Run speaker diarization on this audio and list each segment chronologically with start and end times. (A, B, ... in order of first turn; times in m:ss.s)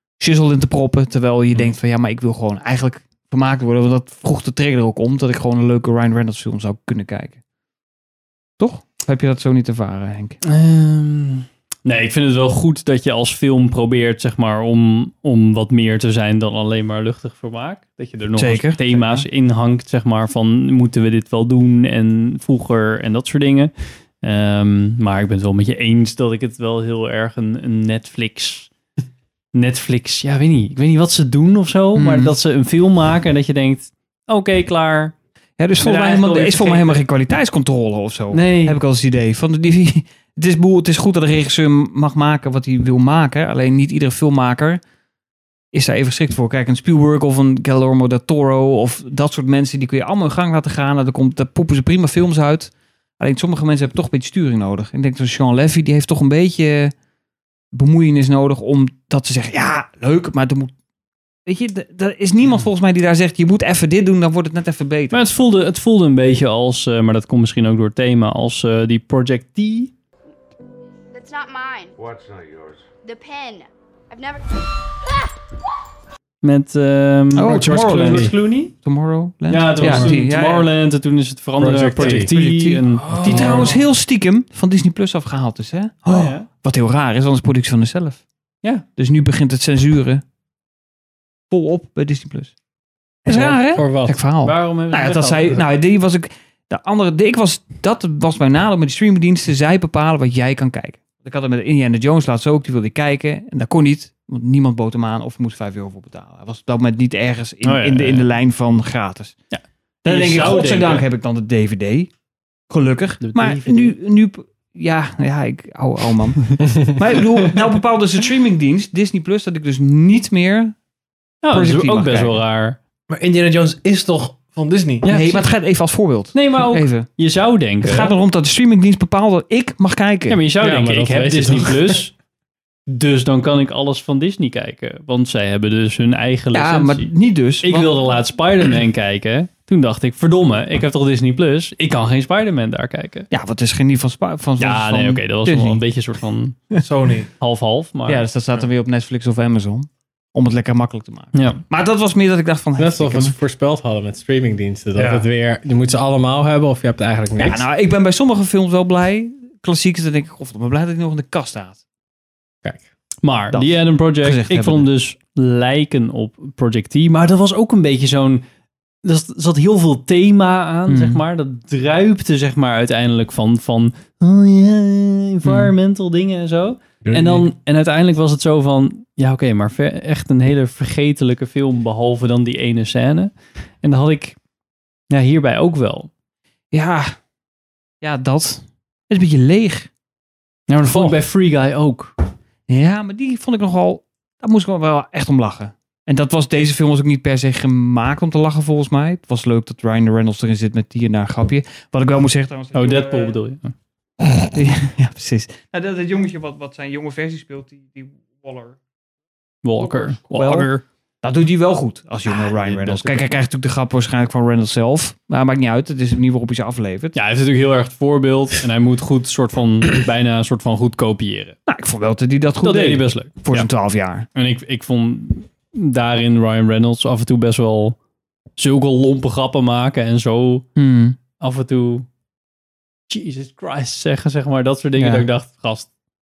0:00.2-0:07.4 A
0:08.6-0:10.4 A
0:10.4-0:28.7 B
0:18.4-0:19.2 A
0:29.5-0:35.1 B
0:32.0-0:32.4 A
0:35.6-0:44.8 A
0:35.8-0:37.0 B
0:38.3-0:38.8 B
0:45.7-0:56.9 A
0:57.7-1:00.7 A
1:01.5-1:05.2 A
1:05.1-1:09.9 B
1:11.1-1:12.0 C
1:13.0-1:14.5 C
1:16.4-1:18.7 B
1:17.4-1:20.7 A
1:17.4-1:18.3 D
1:19.5-1:23.7 B
1:19.8-1:20.2 D
1:21.6-1:22.3 D
1:22.0-1:28.2 A
1:23.0-1:23.8 E
1:26.1-1:26.5 B
1:29.0-1:30.2 A
1:31.5-1:32.5 A
1:33.3-1:34.2 D
1:33.3-1:49.4 A
1:34.4-1:35.6 B
1:47.6-1:48.3 B
1:49.5-1:51.1 B
1:50.0-1:52.1 A
1:52.7-2:00.8 A
1:53.2-1:54.0 B
2:01.4-2:02.8 B
2:01.5-2:02.4 A
2:03.1-2:05.1 E
2:05.0-2:05.5 B
2:05.1-2:07.1 A
2:06.3-2:08.1 B
2:07.8-2:10.4 A
2:10.3-2:12.1 B
2:10.6-2:12.0 D
2:12.9-2:17.1 B
2:16.5-2:18.0 A
2:17.6-2:23.3 B
2:23.3-2:25.8 A
2:24.6-2:26.7 B
2:26.8-2:27.3 E
2:27.4-2:28.3 B
2:28.1-2:33.4 A
2:31.3-2:31.6 B
2:32.8-2:37.7 D
2:35.0-2:35.3 E
2:37.4-2:41.8 A
2:43.2-2:48.4 B
2:43.5-2:44.9 A
2:49.0-3:04.4 B
2:50.9-2:51.2 A
2:55.4-2:55.7 A
2:57.1-2:57.5 D
3:05.1-3:06.1 B
3:06.7-3:07.2 A
3:08.0-3:09.9 A
3:10.7-3:12.1 B
3:10.9-3:11.2 E
3:12.7-3:23.4 A
3:22.7-3:23.7 B
3:24.5-3:28.8 A
3:29.6-3:30.8 B
3:29.8-3:37.2 A
3:32.3-3:33.4 B
3:37.1-3:41.6 B
3:41.7-3:44.3 A
3:42.6-3:43.7 B
3:44.3-3:48.0 B
3:48.6-3:50.7 B
3:50.8-3:51.2 A
3:51.4-3:52.1 B
3:53.1-3:55.9 B
3:55.0-3:55.3 A